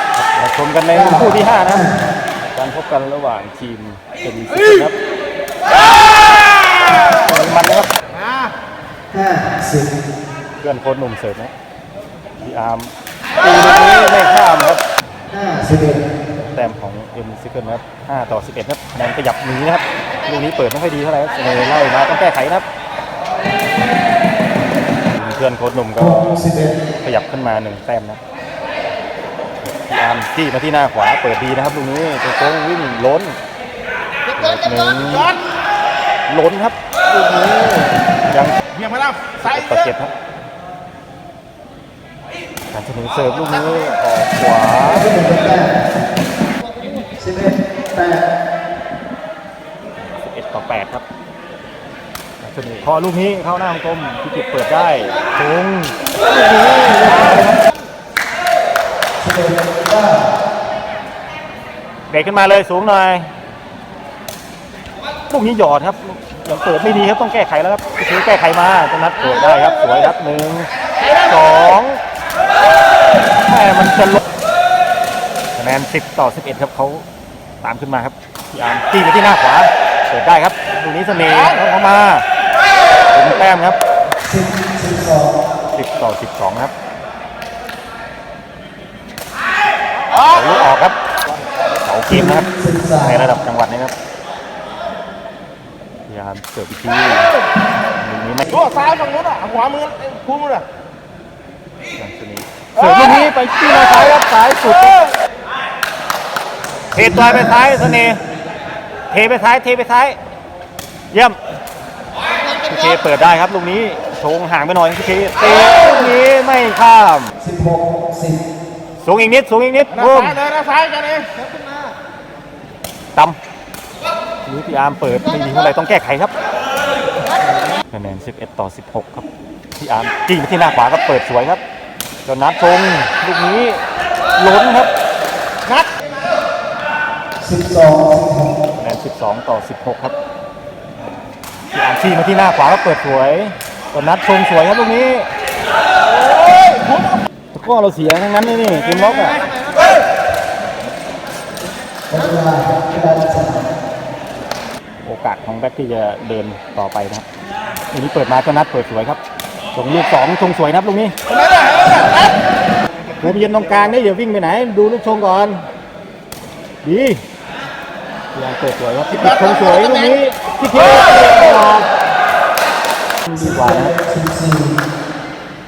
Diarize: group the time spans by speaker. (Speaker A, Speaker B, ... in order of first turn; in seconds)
Speaker A: 0.1-1.9, 2.5-5.0, 7.1-7.9, 10.6-11.5, 12.4-14.8, 16.5-22.6, 25.1-26.3, 27.0-28.2, 29.6-33.4, 34.4-35.4, 36.3-38.6, 39.4-40.1, 42.7-45.1, 50.0-51.0, 52.4-57.5, 62.1-63.3, 65.3-72.0, 73.5-74.2, 75.6-77.0, 77.6-82.2, 83.1-83.8, 85.7-86.7, 90.2-91.0, 91.5-92.5, 93.0-93.9, 96.1-97.4, 98.0-98.6, 102.0-105.1, 106.9-108.2, 109.1-110.2, 111.1-111.4, 112.6-117.3, 119.0-120.4, 124.5-126.4, 127.9-129.2, 129.8-131.6, 132.2-133.8, 134.4-134.9, 138.8-140.2, 141.7-145.3, 147.5-149.4, 155.0-157.2, 157.9-159.2, 159.8-161.2, 163.2-165.7, 166.8-167.2, 168.3-171.9, 173.3-173.9
Speaker B: 0.9-1.9, 9.1-9.9, 15.3-16.0, 26.0-26.7, 44.9-45.8, 47.2-48.2, 59.2-60.3, 84.2-85.4, 92.1-93.3, 107.0-108.0, 117.4-118.4, 137.4-138.6, 152.1-153.6, 173.3-174.8
Speaker C: 8.2-8.4, 38.7-39.7, 98.5-100.7, 119.9-121.3, 146.2-147.2, 161.3-162.3